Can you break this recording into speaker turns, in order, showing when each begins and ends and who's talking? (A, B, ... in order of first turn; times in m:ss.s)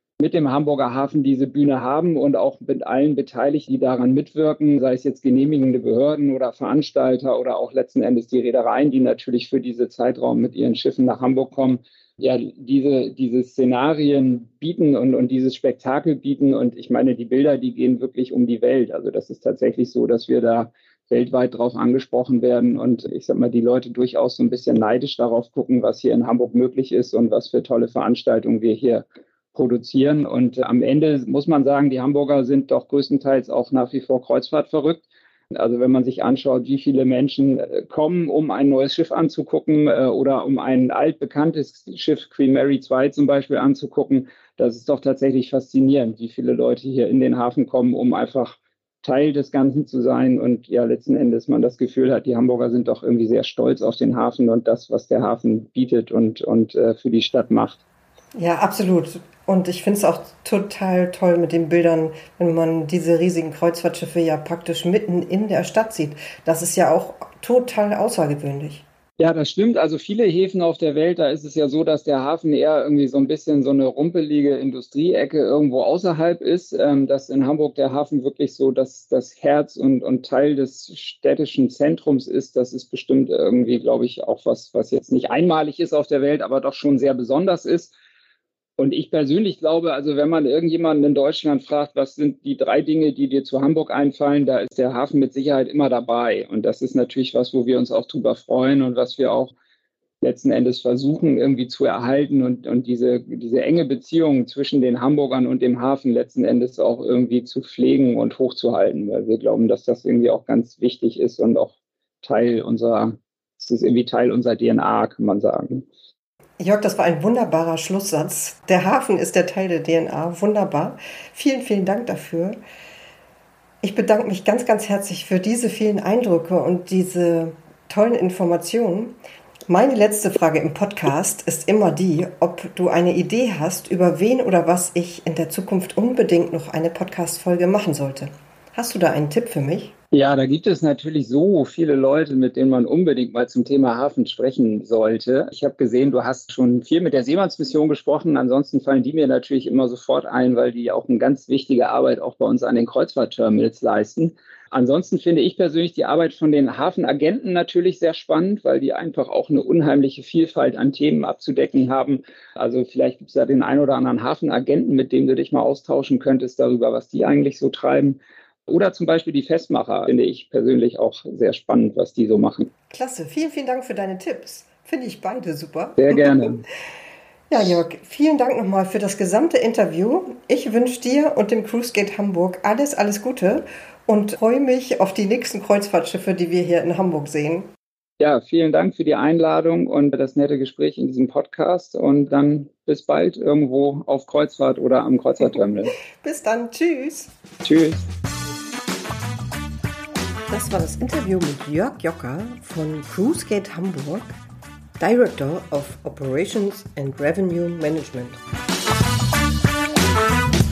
0:00.2-0:57.8 A
0:58.4-1:08.8 B
1:09.2-1:27.9 A
1:28.8-1:39.5 A
1:40.2-1:55.8 A
1:56.6-2:02.6 B
2:03.8-2:09.2 B
2:09.7-2:19.9 B
2:20.1-2:52.7 A
2:52.9-2:56.5 B
2:56.0-2:56.6 A
2:57.5-3:07.7 B
3:08.2-3:16.0 A
3:16.1-3:17.3 B
3:17.6-3:18.0 A
3:20.5-3:24.4 B
3:25.0-3:28.4 B